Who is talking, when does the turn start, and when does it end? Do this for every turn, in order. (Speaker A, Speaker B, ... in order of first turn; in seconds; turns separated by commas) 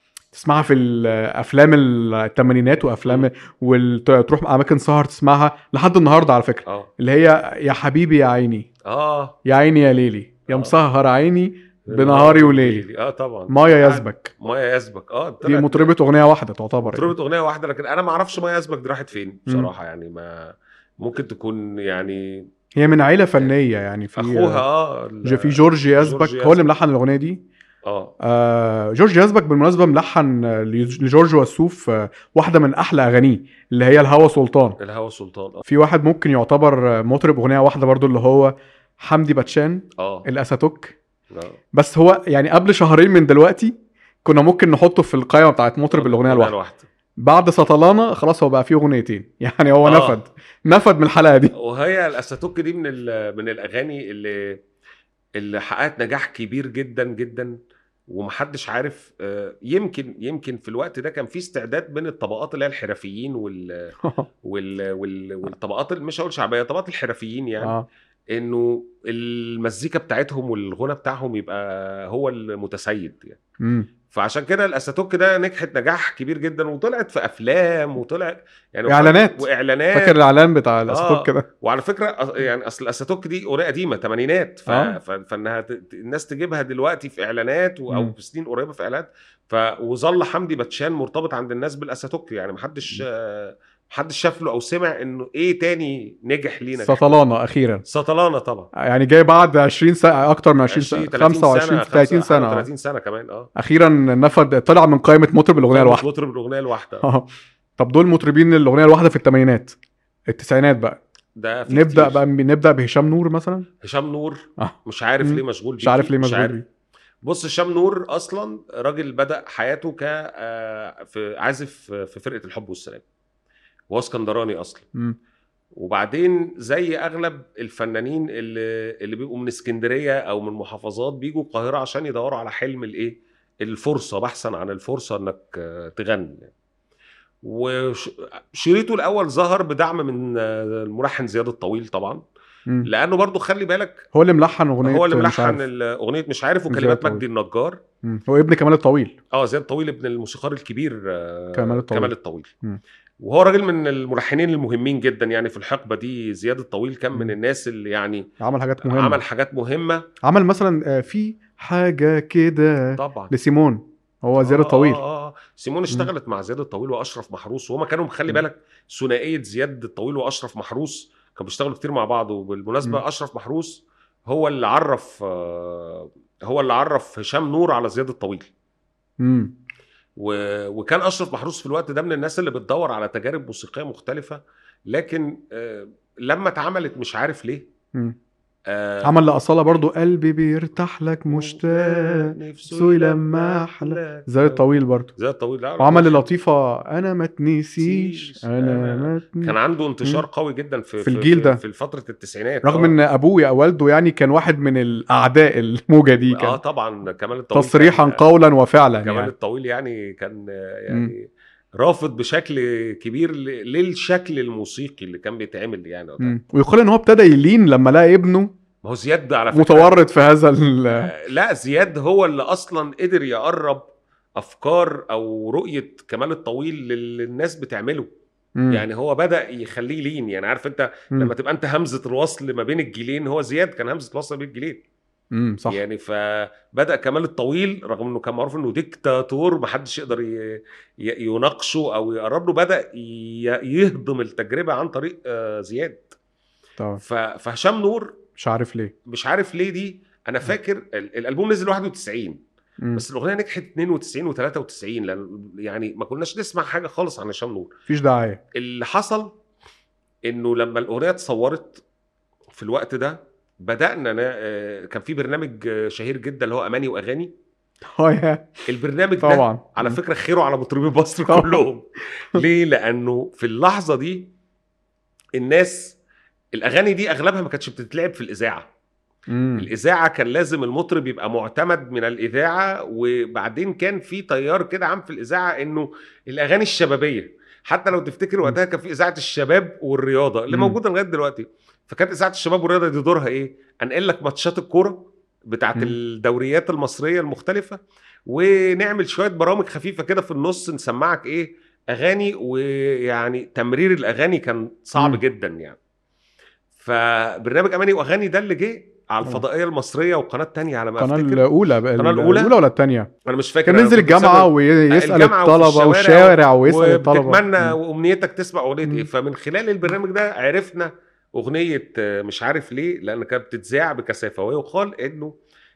Speaker A: 0.3-8.7, Speaker B: 3.0-3.3, Speaker B: 8.9-9.4, Speaker A: 9.5-12.8, Speaker B: 10.5-10.8, Speaker B: 11.9-15.9, Speaker A: 13.5-14.3, Speaker A: 15.4-17.1, Speaker B: 16.8-22.5, Speaker A: 22.8-24.6, Speaker B: 24.2-26.7, Speaker A: 25.2-27.4, Speaker B: 27.9-28.1, Speaker A: 28.2-34.8, Speaker B: 34.8-35.6, Speaker A: 35.7-41.0, Speaker B: 40.0-40.3, Speaker B: 41.3-41.6, Speaker A: 41.7-46.5, Speaker B: 45.9-46.9, Speaker A: 47.2-51.5, Speaker B: 49.9-50.2, Speaker B: 51.5-54.6, Speaker B: 55.4-57.5, Speaker B: 58.1-63.9, Speaker B: 64.4-67.8, Speaker A: 67.6-67.9, Speaker B: 68.3-73.4, Speaker A: 73.6-73.9, Speaker B: 74.1-80.2, Speaker A: 78.9-81.5, Speaker B: 80.9-97.1, Speaker A: 84.7-85.0, Speaker A: 96.8-97.8, Speaker B: 97.9-98.7, Speaker A: 98.8-102.7, Speaker B: 100.7-103.5, Speaker A: 103.6-106.0, Speaker B: 105.7-107.0, Speaker A: 107.0-107.3, Speaker A: 107.8-109.8, Speaker A: 110.3-111.0, Speaker B: 111.4-112.2, Speaker A: 111.7-113.7, Speaker B: 113.8-116.6, Speaker A: 114.6-116.6, Speaker B: 117.2-123.0, Speaker B: 123.9-124.9, Speaker B: 125.8-136.5, Speaker B: 137.4-142.2, Speaker B: 142.8-144.1, Speaker A: 144.1-145.7, Speaker B: 144.8-147.8, Speaker A: 146.7-147.2, Speaker A: 148.1-149.2, Speaker B: 149.3-152.5, Speaker A: 151.5-152.8, Speaker B: 153.2-158.3, Speaker A: 158.4-159.2, Speaker B: 158.8-160.0, Speaker A: 160.2-165.0, Speaker B: 163.0-163.3, Speaker B: 164.4-178.5, Speaker A: 179.2-179.5, Speaker B: 180.2-187.7, Speaker B: 188.7-189.2, Speaker A: 189.0-195.1, Speaker B: 191.3-196.3, Speaker A: 195.8-199.5, Speaker B: 197.8-203.0, Speaker A: 201.0-201.6, Speaker A: 202.6-206.6, Speaker B: 206.3-208.2, Speaker A: 207.5-209.3, Speaker B: 209.0-216.4, Speaker A: 216.2-218.5, Speaker B: 218.8-219.9, Speaker A: 219.5-221.1, Speaker B: 220.9-228.1, Speaker A: 228.6-228.8, Speaker B: 228.7-234.8, Speaker A: 235.3-235.8, Speaker B: 235.7-246.2, Speaker B: 247.0-248.2, Speaker A: 248.4-248.9, Speaker B: 249.1-252.4, Speaker B: 253.0-257.7, Speaker A: 257.9-258.4, Speaker B: 258.6-259.3, Speaker B: 260.3-261.8, Speaker B: 262.5-267.3, Speaker A: 268.0-268.6, Speaker B: 268.7-274.3, Speaker A: 269.2-270.0, Speaker A: 271.3-271.6, Speaker B: 275.4-276.0, Speaker B: 276.6-278.7, Speaker A: 279.3-279.7, Speaker B: 279.6-305.8, Speaker A: 290.5-290.8, Speaker A: 305.0-305.2, Speaker B: 306.8-311.4, Speaker A: 311.0-313.1, Speaker B: 312.0-312.5, Speaker B: 313.3-325.3, Speaker A: 313.6-317.8